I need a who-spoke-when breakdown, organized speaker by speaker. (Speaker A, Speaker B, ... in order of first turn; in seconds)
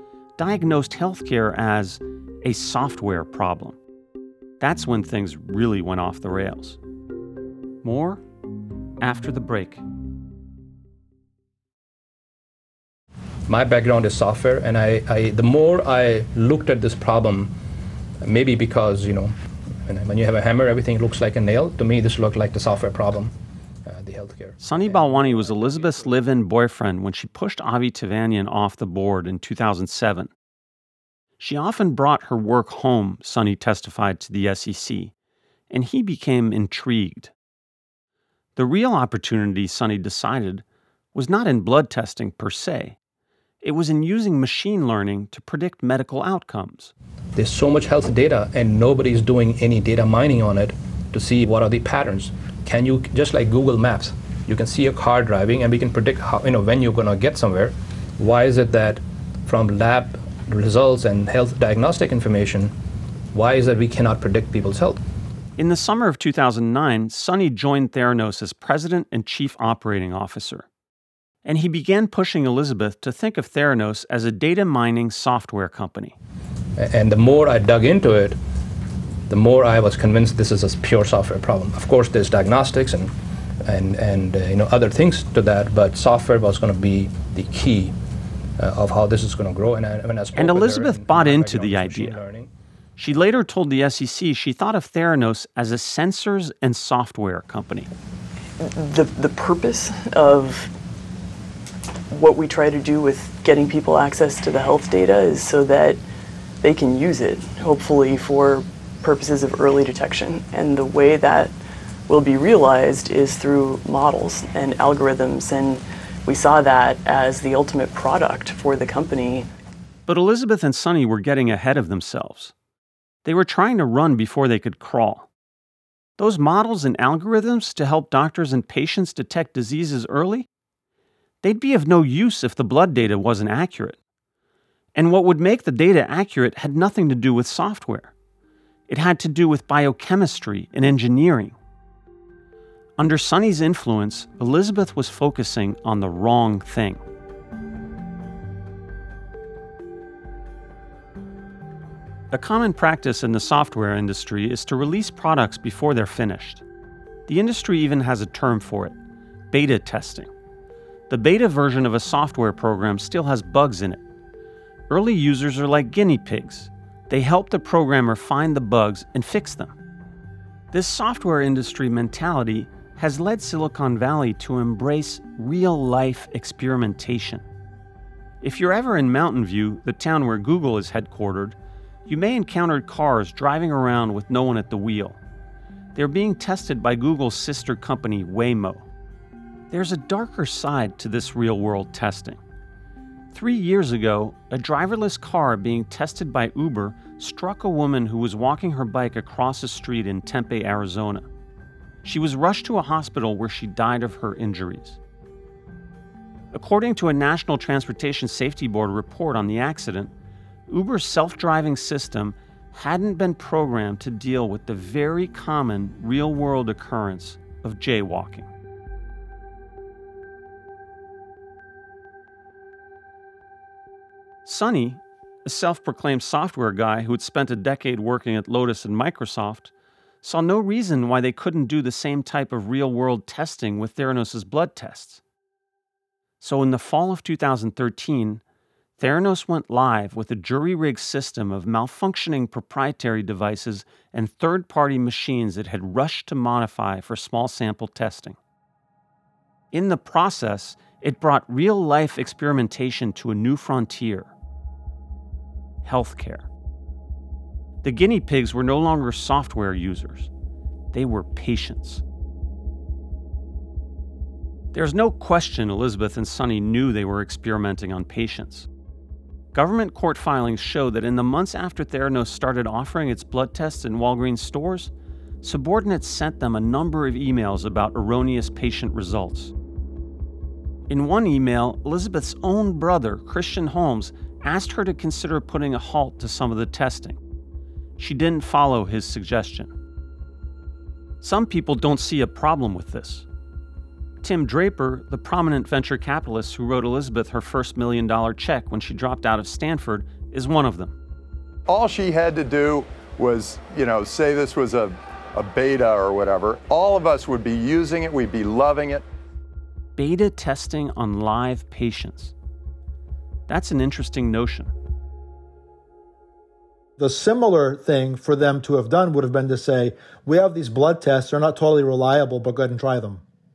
Speaker A: 0.4-3.8, 4.6-6.8, 7.8-8.2, 9.0-9.8, 24.6-30.3, 31.4-35.1, 35.7-37.3, 38.5-43.0, 43.6-46.9, 65.6-70.7, 71.4-76.2, 90.3-92.2, 93.0-97.9, 120.1-122.5, 123.2-125.3, 126.2-130.5, 131.4-134.0, 134.9-138.1, 138.9-141.6, 143.0-147.0, 152.3-156.6, 157.3-159.0, 159.5-160.3, 161.1-164.0, 164.9-169.7, 170.7-177.4, 178.4-185.2, 185.9-188.9, 189.7-192.4, 193.3-201.2, 202.0-205.0, 206.5-210.1, 210.7-218.5, 224.4-229.7, 230.2-235.2, 236.4-238.4, 239.0-248.4, 249.7-254.3, 255.8-256.5, 257.8-260.3, 260.9-262.0, 264.7-268.7, 269.5-279.5, 280.9-287.2, 288.0-289.7, 291.2-293.3, 294.2-300.9, 309.9-312.3, 313.5-314.7
Speaker B: 13.5-17.5, 18.2-19.3, 19.9-23.3, 23.9-26.2, 47.3-62.7, 63.3-65.0, 76.8-78.4, 79.3-83.1, 83.7-87.9, 88.6-92.5
Speaker C: 98.6-100.7, 102.1-106.0, 106.6-111.5, 112.1-119.5
Speaker D: 301.7-309.1
Speaker E: 317.0-323.2